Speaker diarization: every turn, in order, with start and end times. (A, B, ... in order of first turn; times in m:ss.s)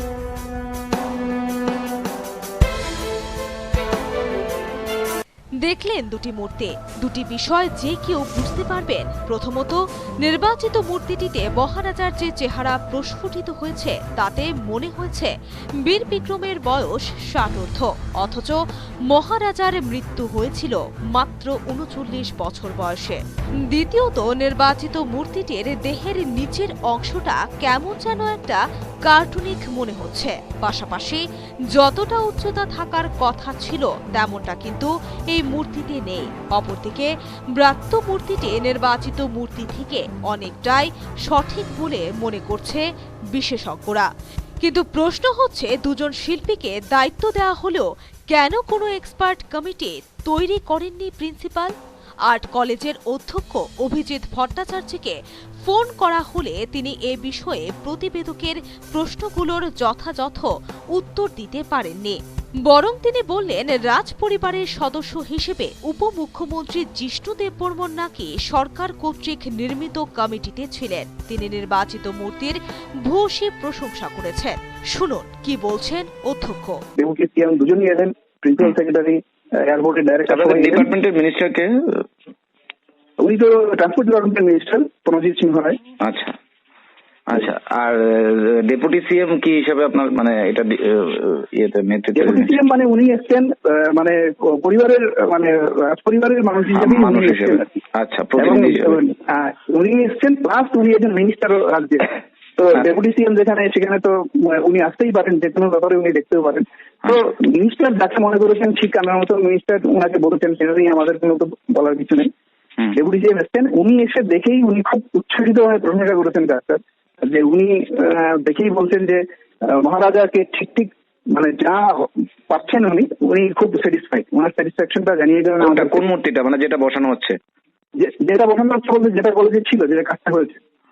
0:05.6-0:31.2 A
0:31.7-0:44.1 A
0:44.6-0:51.7 A
0:52.3-1:16.8 A
1:17.0-1:20.9 B
1:20.3-1:22.0 C
1:23.2-1:25.8 B
1:26.0-1:26.3 C
1:27.3-1:32.5 C
1:32.1-1:37.7 B
1:36.7-1:38.9 C
1:38.4-1:42.0 B
1:42.6-1:52.3 B
1:52.9-2:06.0 B
2:05.6-2:07.4 C
2:08.0-2:10.6 B